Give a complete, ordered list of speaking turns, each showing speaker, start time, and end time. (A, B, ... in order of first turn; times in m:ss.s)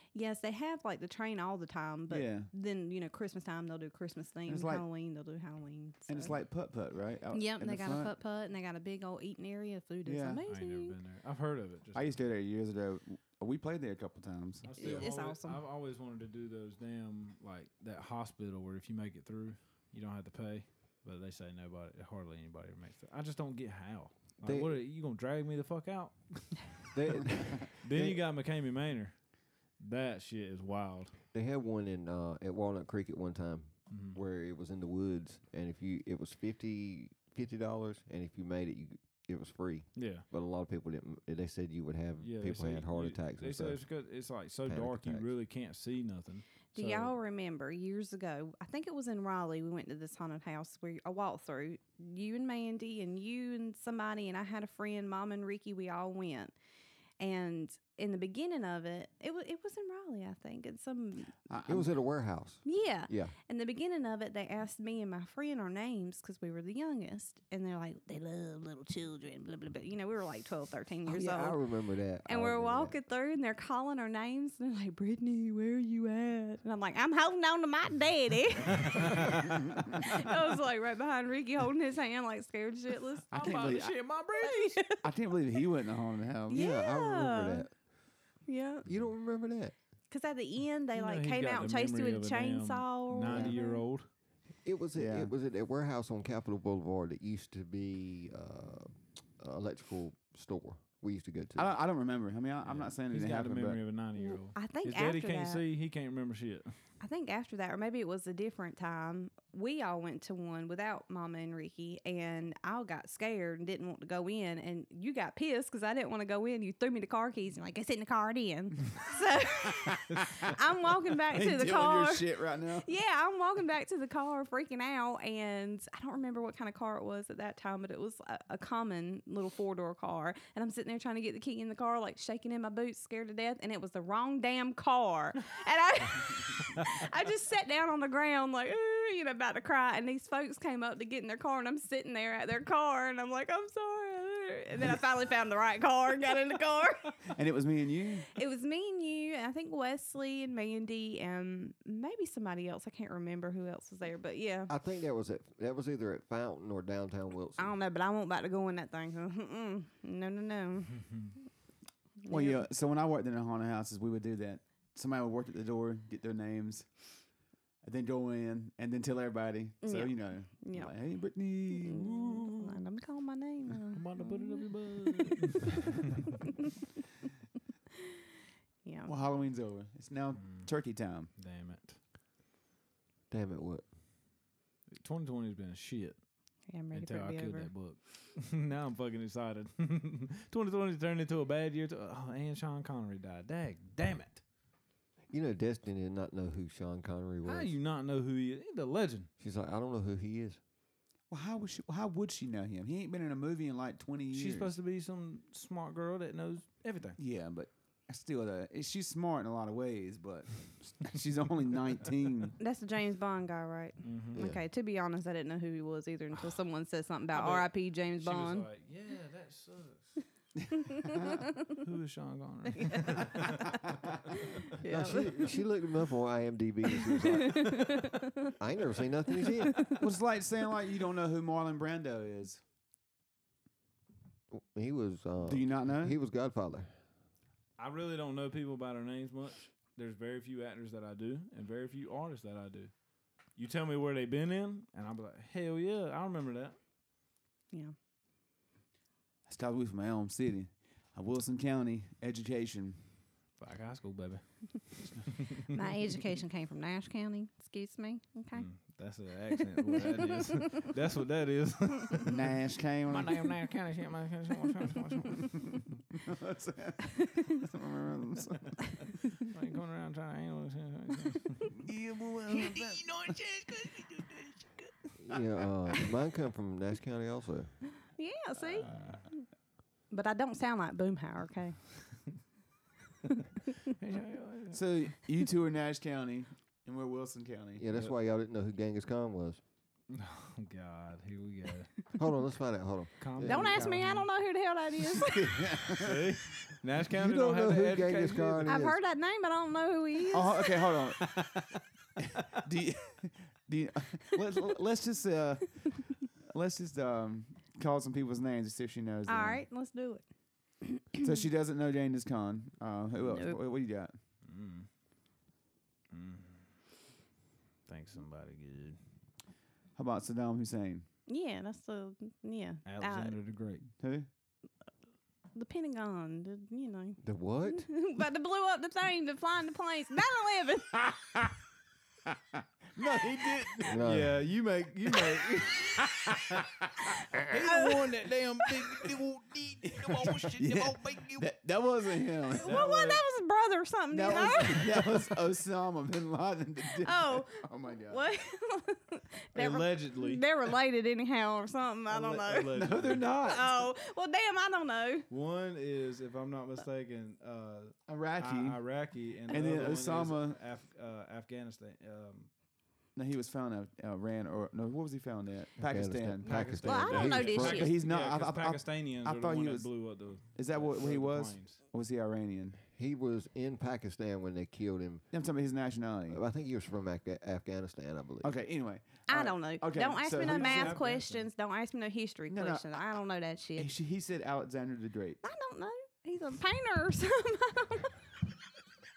0:00.1-0:06.3 A
0:02.1-0:02.5 B
0:04.5-0:04.8 B
0:06.1-0:08.1 B
0:07.3-0:10.9 A
0:10.0-0:10.4 B
0:10.5-0:12.2 C
0:11.9-0:15.0 B
0:14.6-0:26.8 C
0:14.8-0:15.6 A
0:24.4-0:24.8 D
0:26.9-0:28.2 D
0:27.6-0:29.2 C
0:29.8-0:31.2 C
0:31.3-0:43.8 D
0:33.9-0:34.2 C
0:40.0-0:40.2 C
0:42.2-0:47.1 C
0:44.6-0:45.2 D
0:46.7-0:56.5 A
0:57.2-1:01.3 A
1:01.5-1:01.9 B
1:01.6-1:03.3 D
1:02.6-1:11.6 A
1:11.1-1:12.9 D
1:12.2-1:23.7 A
1:23.3-1:24.0 B
1:23.3-1:24.8 C
1:24.4-1:25.0 A
1:25.0-1:26.6 B
1:26.5-1:27.6 A
1:26.5-1:27.7 D
1:28.5-1:28.8 A
1:28.8-1:29.7 D
1:30.1-1:33.8 A
1:30.9-1:34.1 C
1:33.3-1:33.5 B
1:34.6-1:41.7 D
1:34.9-1:35.3 B
1:41.6-1:43.8 B
1:42.6-1:46.8 C
1:44.2-1:45.6 A
1:47.0-2:27.2 A
1:59.8-2:00.5 B
2:01.1-2:02.9 B
2:27.2-2:28.3 B
2:28.3-2:34.7 A
2:34.7-2:37.7 D
2:37.6-2:41.1 A
2:42.2-2:42.6 A
2:42.3-2:46.9 B
2:47.8-2:52.4 B
2:49.8-2:50.9 A
2:51.8-2:55.4 A
2:53.9-2:56.2 C
2:58.8-2:59.1 A
2:59.0-3:01.3 B
3:00.4-3:00.7 C
3:01.4-3:02.0 C
3:03.3-3:03.8 D
3:04.9-3:06.2 C
3:06.7-3:07.7 A
3:06.9-3:14.4 C
3:15.3-3:17.7 D
3:17.4-3:19.3 C
3:19.4-3:20.6 D
3:21.3-3:24.7 B
3:24.3-3:27.2 C
3:27.2-3:32.6 B
3:32.6-3:38.7 A
3:34.0-3:34.4 C
3:34.3-3:34.6 D
3:37.3-3:40.2 C
3:40.9-3:41.3 A
3:41.7-3:43.8 C
3:42.7-3:43.5 A
3:44.7-3:45.5 A
3:44.8-3:50.0 D
3:47.0-3:48.5 A
3:49.4-3:50.0 A
3:50.0-3:52.6 B
3:54.5-3:56.9 D
3:55.4-3:56.1 B
3:57.8-4:02.9 C
4:03.6-4:06.8 C
4:09.5-4:13.0 B
4:13.6-4:15.7 C
4:15.7-4:18.7 A
4:18.5-4:22.4 C
4:20.0-4:20.8 A
4:22.2-4:23.5 B
4:23.1-4:25.7 C
4:26.2-4:28.8 B
4:27.2-4:27.4 A
4:29.4-4:31.8 C
4:31.8-4:34.6 B
4:35.2-4:37.8 D
4:38.1-4:39.4 A
4:38.6-4:39.2 B
4:40.1-4:41.8 A
4:43.3-4:43.8 A
4:44.0-4:44.8 C
4:44.7-4:47.8 B
4:47.8-4:49.6 D
4:50.1-4:52.1 C
4:52.2-4:53.8 D
4:53.2-4:54.3 C
4:53.4-4:55.6 A
4:53.6-4:54.0 B
4:55.0-4:56.4 B
4:55.9-4:58.7 C
4:57.1-4:59.0 D
4:58.6-5:01.0 A
5:00.3-5:01.4 B
5:02.2-5:09.6 B
5:09.3-5:10.2 A
5:10.8-5:11.2 A
5:11.2-5:14.1 B
5:13.3-5:13.6 A
5:14.4-5:14.9 C
5:16.1-5:16.7 C
5:17.9-5:19.0 C
5:20.0-5:21.0 B
5:21.3-5:23.3 A
5:22.8-5:23.9 C
5:24.0-5:24.3 B
5:25.5-5:31.1 A
5:27.2-5:27.9 D
5:32.3-5:34.0 B
5:33.9-5:34.4 D
5:34.0-5:36.6 C
5:36.0-5:36.9 B
5:37.3-5:41.4 C
5:37.4-5:39.0 A
5:40.5-5:42.8 B
5:42.6-5:45.0 A
5:42.6-5:43.2 C
5:44.1-5:48.3 B
5:47.0-5:55.3 A
5:49.5-5:50.4 C
5:52.1-5:53.3 C
5:52.6-5:53.9 B
5:55.3-6:02.5 C
5:58.1-5:58.8 B
5:59.5-6:00.6 B
6:03.1-6:12.8 B
6:05.8-6:07.8 D
6:06.4-6:11.8 C
6:06.8-6:07.9 A
6:12.9-6:15.2 D
6:15.3-6:16.4 B
6:16.3-6:18.5 D
6:18.4-6:21.0 B
6:19.3-6:23.9 A
6:20.3-6:21.5 C
6:22.5-6:22.8 B
6:23.8-6:25.4 B
6:25.4-6:28.2 A